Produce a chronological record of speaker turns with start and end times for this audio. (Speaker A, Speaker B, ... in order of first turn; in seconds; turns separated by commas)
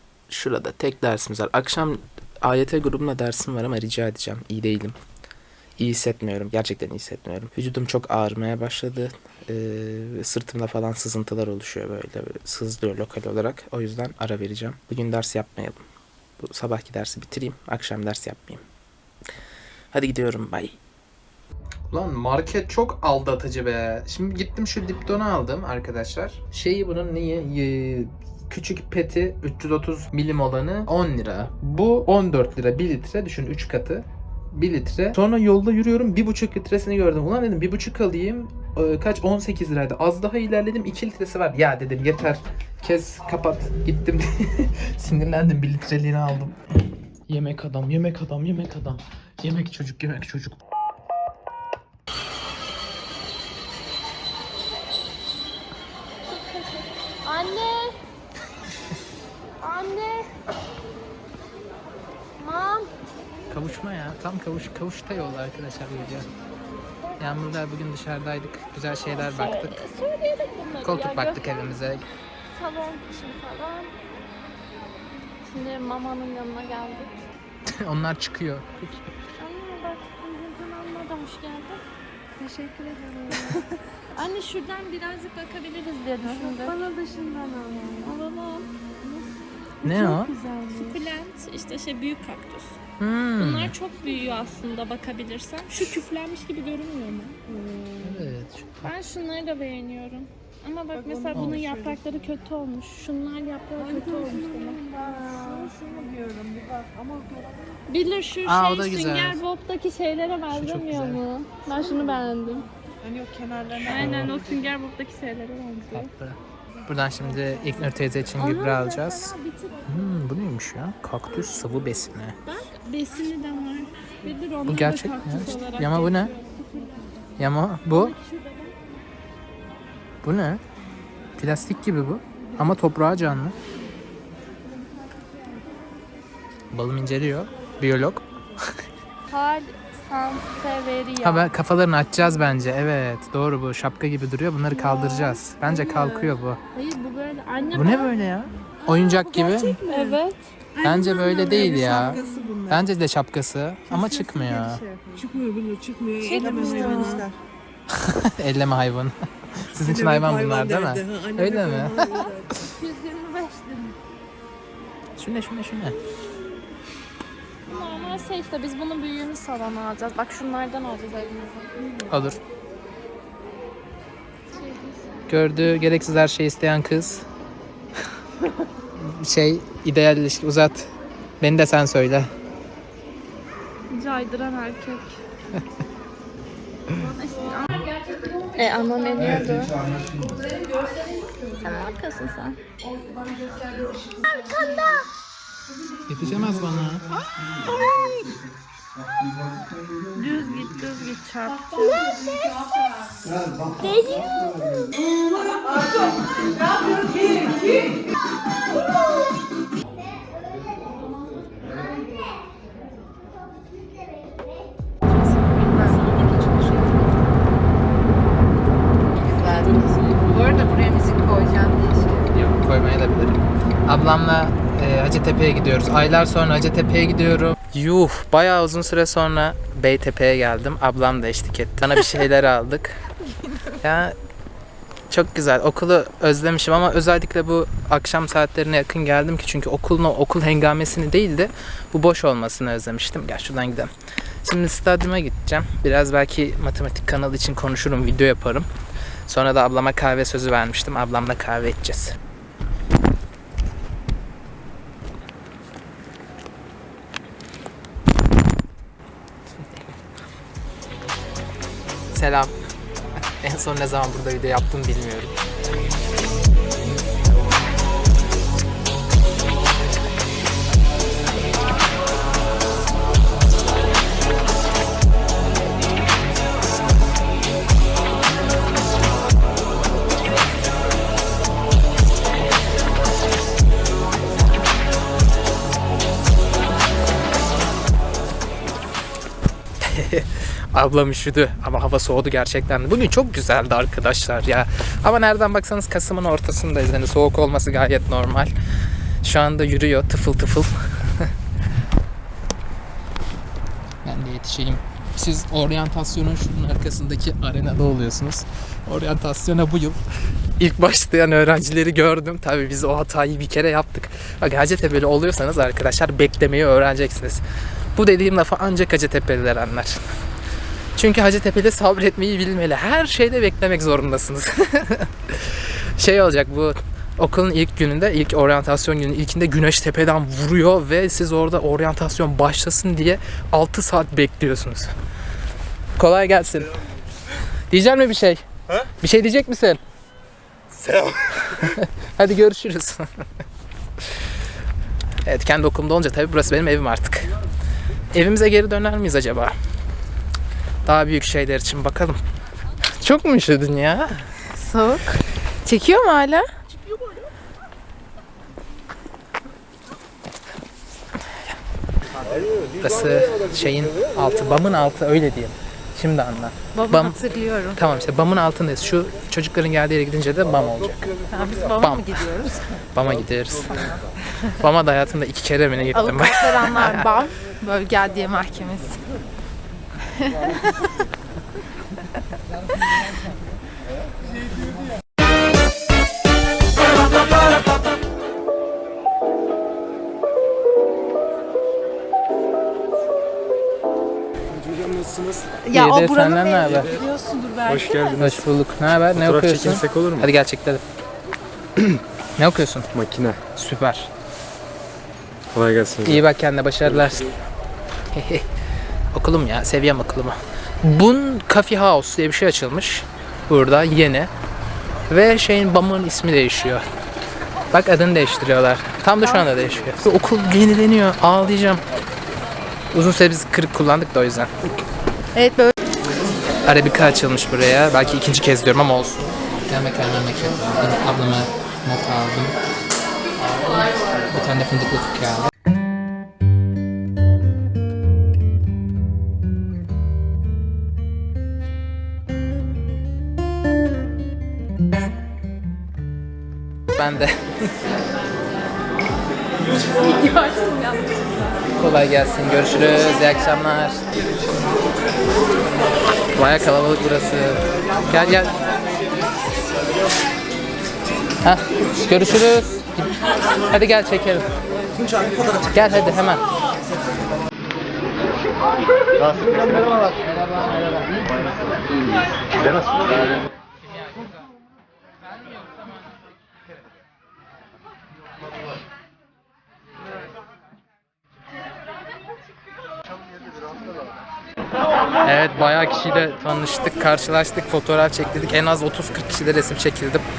Speaker A: 0.3-5.0, Speaker A: 5.8-15.8, Speaker A: 16.4-18.6, Speaker A: 19.9-20.8, Speaker A: 21.9-46.6, Speaker A: 47.3-50.6, Speaker B: 56.3-58.0, Speaker B: 59.6-60.3, Speaker B: 62.4-62.9, Speaker A: 63.5-66.3, Speaker A: 67.2-69.8, Speaker B: 69.2-71.7, Speaker A: 70.8-72.0, Speaker B: 72.5-74.0, Speaker B: 75.5-77.2, Speaker A: 77.7-79.1, Speaker B: 79.4-81.8, Speaker C: 82.4-83.5, Speaker B: 83.3-83.6, Speaker B: 84.2-86.8, Speaker C: 86.3-88.1, Speaker B: 88.0-88.7, Speaker A: 89.8-90.3, Speaker C: 89.8-91.0, Speaker B: 90.7-92.8, Speaker A: 93.0-93.8, Speaker B: 93.4-97.9, Speaker A: 98.0-98.8, Speaker B: 98.8-105.8, Speaker C: 101.2-101.9, Speaker C: 103.9-107.4, Speaker B: 107.9-112.7, Speaker A: 108.4-109.4, Speaker A: 110.5-111.2, Speaker C: 113.0-114.4, Speaker A: 113.7-114.3, Speaker B: 113.9-116.1, Speaker A: 115.9-122.4, Speaker B: 118.4-119.9, Speaker B: 122.5-127.0, Speaker A: 124.7-126.3, Speaker A: 127.4-128.2, Speaker B: 127.9-128.8, Speaker A: 130.2-130.6, Speaker A: 131.4-133.6, Speaker A: 136.7-138.7, Speaker B: 139.3-141.5, Speaker A: 141.2-146.6, Speaker B: 144.8-145.4, Speaker B: 146.8-148.1, Speaker A: 147.7-149.8, Speaker C: 148.9-150.2, Speaker B: 149.5-150.4, Speaker A: 150.8-154.8, Speaker C: 150.8-152.8, Speaker B: 151.7-152.4, Speaker C: 153.9-157.3, Speaker B: 156.2-157.3, Speaker A: 157.9-162.7, Speaker C: 159.9-162.4, Speaker B: 162.1-164.0, Speaker A: 165.2-166.0, Speaker B: 167.7-171.9, Speaker A: 172.1-172.4, Speaker B: 174.5-175.0, Speaker A: 175.3-177.3, Speaker A: 178.9-180.9, Speaker A: 181.4-182.3, Speaker B: 183.9-185.2, Speaker B: 187.2-187.9, Speaker B: 188.6-189.8, Speaker B: 191.6-192.6, Speaker C: 193.2-194.0, Speaker B: 194.3-195.1, Speaker A: 196.1-197.1, Speaker B: 197.3-198.4, Speaker B: 200.1-202.2, Speaker B: 203.8-204.4, Speaker B: 215.1-217.1, Speaker D: 215.8-216.5, Speaker D: 219.2-222.3, Speaker B: 219.4-220.2, Speaker A: 222.3-233.1, Speaker A: 233.7-234.2, Speaker A: 235.1-243.9, Speaker A: 244.4-248.7, Speaker A: 249.3-252.1, Speaker A: 259.6-259.9, Speaker A: 262.1-262.5, Speaker A: 263.4-265.4, Speaker A: 289.8-298.5, Speaker A: 299.2-301.3, Speaker A: 304.0-310.0, Speaker A: 310.6-317.4, Speaker A: 317.9-320.0, Speaker A: 321.0-334.9, Speaker A: 336.0-336.8, Speaker A: 337.7-339.8, Speaker A: 340.9-343.2, Speaker A: 345.2-347.3, Speaker A: 348.1-349.6, Speaker A: 350.8-352.2, Speaker A: 352.9-354.5, Speaker D: 354.5-356.4, Speaker A: 362.8-371.1, Speaker D: 366.8-367.8, Speaker D: 371.3-372.6, Speaker A: 371.8-373.9, Speaker A: 374.5-377.1, Speaker D: 375.9-379.0, Speaker D: 380.1-380.8, Speaker E: 394.9-395.4, Speaker D: 395.6-396.8, Speaker A: 395.7-397.0, Speaker E: 397.7-398.4, Speaker A: 398.1-400.8, Speaker E: 399.1-400.3, Speaker A: 402.4-402.9, Speaker E: 402.9-403.4, Speaker A: 403.5-404.1, Speaker E: 405.5-406.2, Speaker A: 406.0-407.3, Speaker A: 408.1-408.5, Speaker A: 409.1-414.3, Speaker A: 415.1-416.9, Speaker A: 417.7-421.8, Speaker A: 422.9-424.5, Speaker D: 425.4-425.7, Speaker A: 426.7-432.6, Speaker A: 433.4-435.5, Speaker A: 446.9-447.7, Speaker B: 450.2-450.9, Speaker A: 451.8-454.1, Speaker A: 456.4-458.6, Speaker A: 461.4-463.1, Speaker A: 463.7-464.5, Speaker A: 465.6-466.4, Speaker A: 485.2-490.2